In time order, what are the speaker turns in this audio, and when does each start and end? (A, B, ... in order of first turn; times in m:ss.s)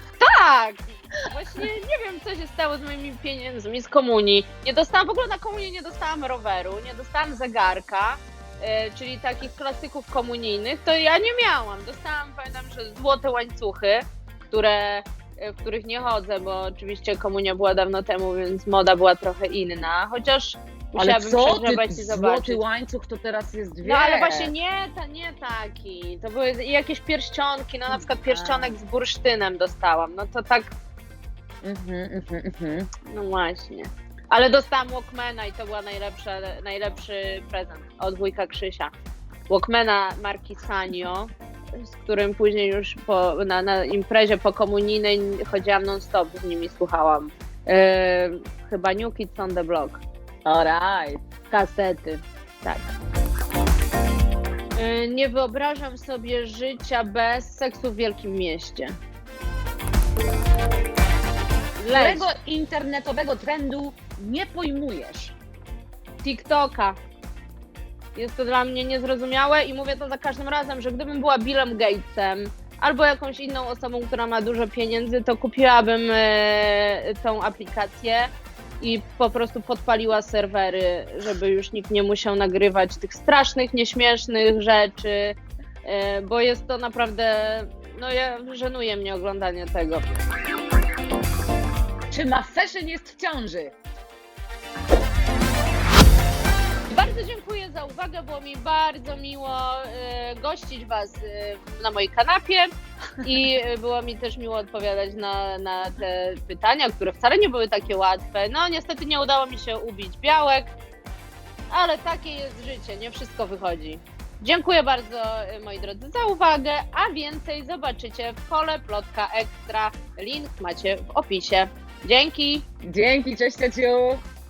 0:00.2-0:22.6 A
0:21.0-0:24.5 B
0:23.8-0:30.7 A
0:27.9-0:28.7 B
0:31.6-0:32.9 B
0:33.1-0:38.9 A
0:39.5-0:50.0 A
0:50.4-0:51.2 B
0:51.5-0:52.9 A
0:54.8-0:59.0 A
1:01.8-1:02.3 A
1:01.9-1:05.4 B
1:06.2-1:07.0 A
1:08.1-1:30.1 A
1:32.1-1:33.7 B
1:36.9-1:42.7 A
1:43.2-1:50.7 A
1:51.7-2:02.7 A
2:02.8-2:04.2 B